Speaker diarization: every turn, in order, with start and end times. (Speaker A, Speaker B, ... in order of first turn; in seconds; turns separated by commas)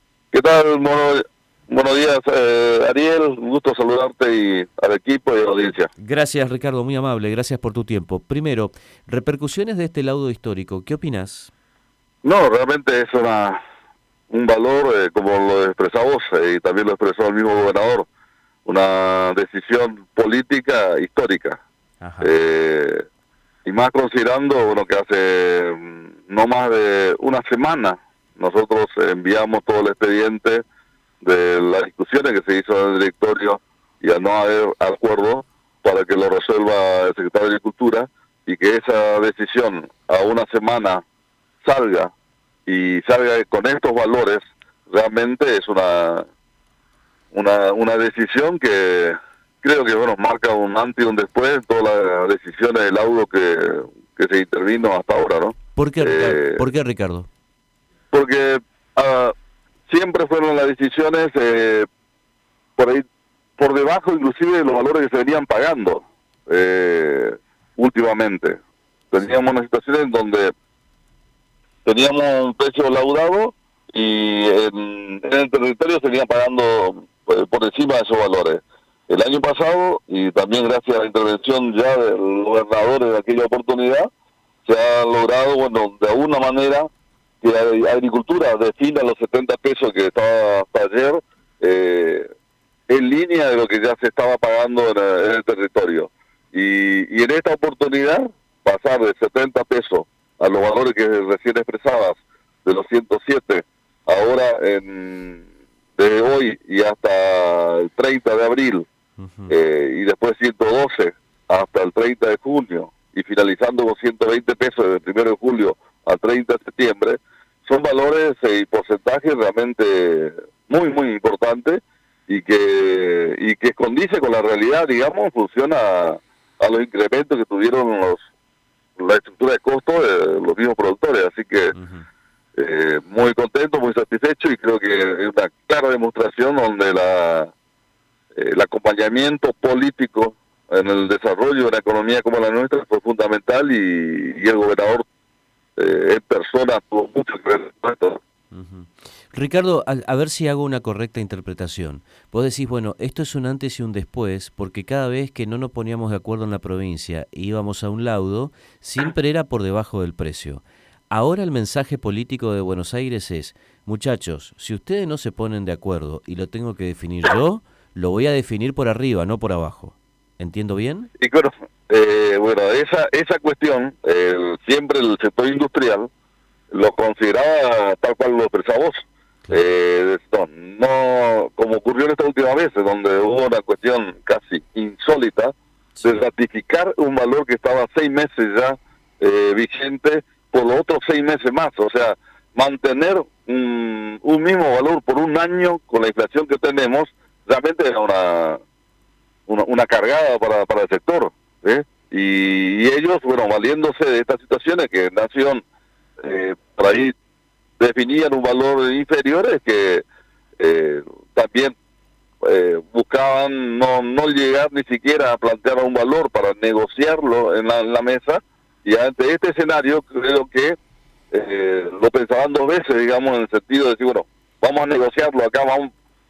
Speaker A: 0.3-5.9, Speaker B: 6.0-11.5, Speaker A: 12.2-13.6, Speaker A: 14.3-18.1, Speaker A: 18.7-21.6, Speaker B: 22.0-22.3, Speaker A: 22.2-23.1, Speaker A: 23.6-30.6, Speaker A: 31.2-41.0, Speaker A: 41.6-42.1, Speaker A: 42.7-46.3, Speaker A: 47.3-56.6, Speaker B: 55.8-57.3, Speaker A: 58.1-59.3, Speaker A: 59.9-61.9, Speaker A: 62.8-63.1, Speaker A: 63.6-68.6, Speaker A: 69.1-70.5, Speaker A: 71.8-84.1, Speaker A: 84.7-86.9, Speaker A: 87.4-92.3, Speaker A: 92.9-105.4, Speaker A: 106.0-108.9, Speaker B: 109.2-109.5, Speaker A: 109.5-128.2, Speaker A: 129.0-131.8, Speaker B: 131.7-132.1, Speaker A: 132.6-137.5, Speaker A: 138.3-145.1, Speaker B: 140.8-141.1, Speaker A: 145.8-148.2, Speaker B: 148.5-171.1, Speaker A: 171.2-176.1, Speaker A: 176.7-198.6, Speaker B: 186.0-186.2, Speaker A: 199.5-205.6, Speaker A: 206.2-207.1, Speaker A: 207.8-210.0, Speaker A: 210.6-211.8, Speaker A: 212.4-220.8, Speaker A: 221.3-225.9